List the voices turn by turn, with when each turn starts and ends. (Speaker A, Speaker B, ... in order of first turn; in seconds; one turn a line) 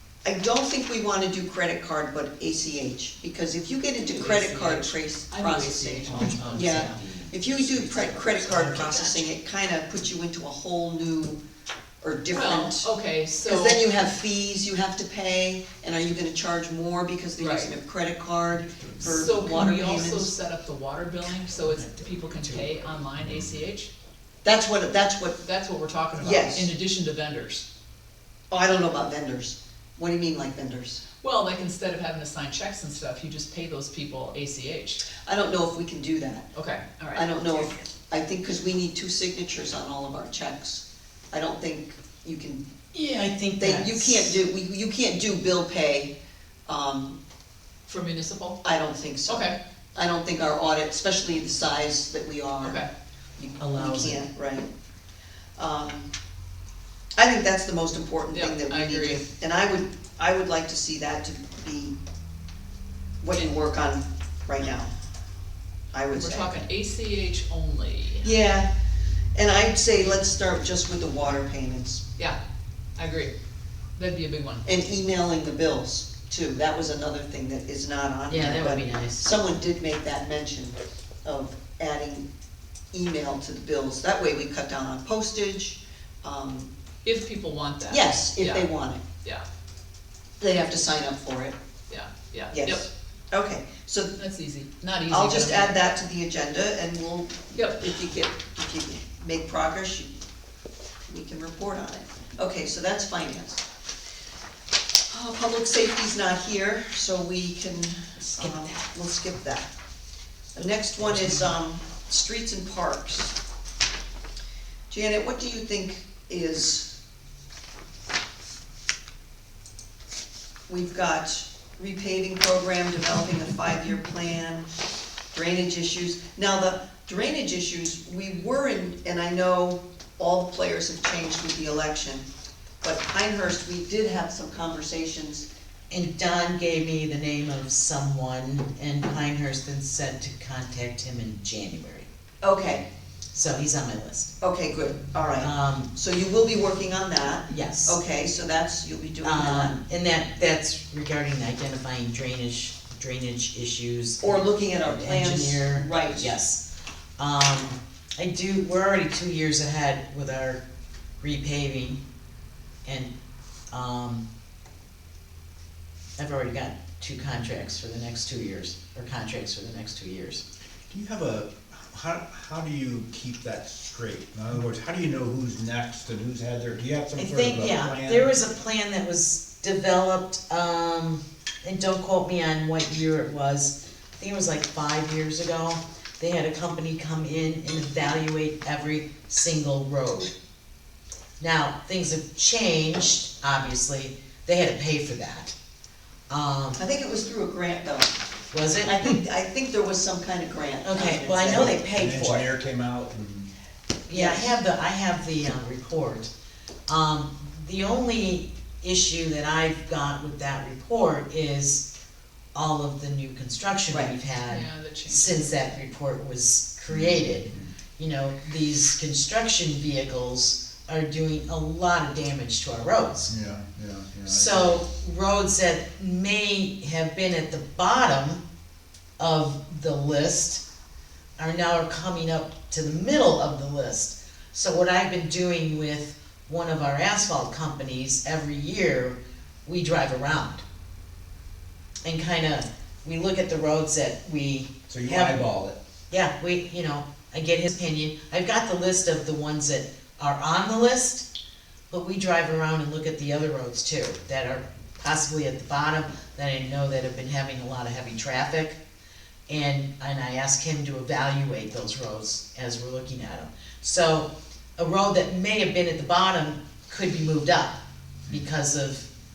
Speaker A: 0.2-11.4
Speaker B: 4.1-7.0
Speaker C: 6.1-9.1
Speaker B: 8.6-9.3
Speaker A: 12.0-12.9
Speaker B: 12.3-13.8
Speaker A: 13.4-20.3
Speaker B: 17.4-17.7
Speaker B: 19.0-23.9
Speaker D: 23.2-23.6
Speaker A: 24.4-25.4
Speaker B: 25.4-27.7
Speaker A: 26.2-26.7
Speaker A: 28.5-31.0
Speaker B: 31.2-35.0
Speaker A: 35.2-36.5
Speaker B: 36.5-37.7
Speaker A: 37.1-42.7
Speaker C: 42.9-44.4
Speaker A: 43.6-46.1
Speaker A: 46.7-47.2
Speaker B: 47.9-48.6
Speaker A: 48.6-52.8
Speaker B: 49.3-49.6
Speaker B: 52.6-52.9
Speaker A: 53.4-54.7
Speaker C: 53.6-54.2
Speaker A: 55.6-56.1
Speaker A: 57.2-62.0
Speaker B: 58.3-59.2
Speaker A: 63.2-64.9
Speaker A: 65.9-66.5
Speaker B: 66.2-68.3
Speaker A: 68.2-68.7
Speaker A: 69.3-72.0
Speaker B: 73.0-73.3
Speaker B: 74.0-74.7
Speaker A: 74.6-82.3
Speaker C: 78.3-79.3
Speaker A: 82.9-86.7
Speaker B: 87.0-88.7
Speaker A: 87.9-89.0
Speaker A: 90.4-91.6
Speaker B: 91.9-92.9
Speaker A: 92.5-94.2
Speaker B: 94.2-95.8
Speaker A: 95.1-100.1
Speaker B: 97.5-97.9
Speaker A: 101.1-103.6
Speaker A: 105.1-109.7
Speaker C: 108.2-108.9
Speaker A: 110.5-113.4
Speaker A: 114.9-117.0
Speaker A: 120.7-124.7
Speaker A: 125.3-132.2
Speaker A: 132.8-135.5
Speaker C: 135.9-142.1
Speaker A: 142.4-142.9
Speaker C: 143.3-144.3
Speaker A: 144.4-149.8
Speaker C: 145.4-145.9
Speaker C: 147.5-148.0
Speaker C: 149.2-156.7
Speaker A: 154.2-156.3
Speaker C: 157.2-160.6
Speaker C: 161.2-162.0
Speaker C: 162.9-163.1
Speaker C: 163.7-164.2
Speaker C: 166.2-170.4
Speaker D: 170.9-178.3
Speaker C: 177.2-190.3
Speaker C: 191.4-195.5
Speaker C: 196.3-196.8
Speaker A: 196.8-198.2
Speaker C: 198.5-199.0
Speaker A: 198.8-201.8
Speaker C: 200.8-202.5
Speaker D: 201.4-203.5
Speaker C: 204.1-206.3
Speaker A: 204.1-204.5
Speaker C: 206.9-211.9
Speaker C: 212.6-223.3
Speaker A: 213.9-214.1
Speaker B: 214.5-215.6
Speaker D: 216.9-217.7
Speaker D: 223.3-224.8
Speaker C: 224.3-228.4
Speaker C: 229.2-230.6
Speaker C: 231.4-240.6
Speaker C: 242.0-245.4
Speaker D: 244.9-245.8
Speaker C: 246.1-251.3
Speaker C: 251.9-258.8
Speaker C: 259.5-269.1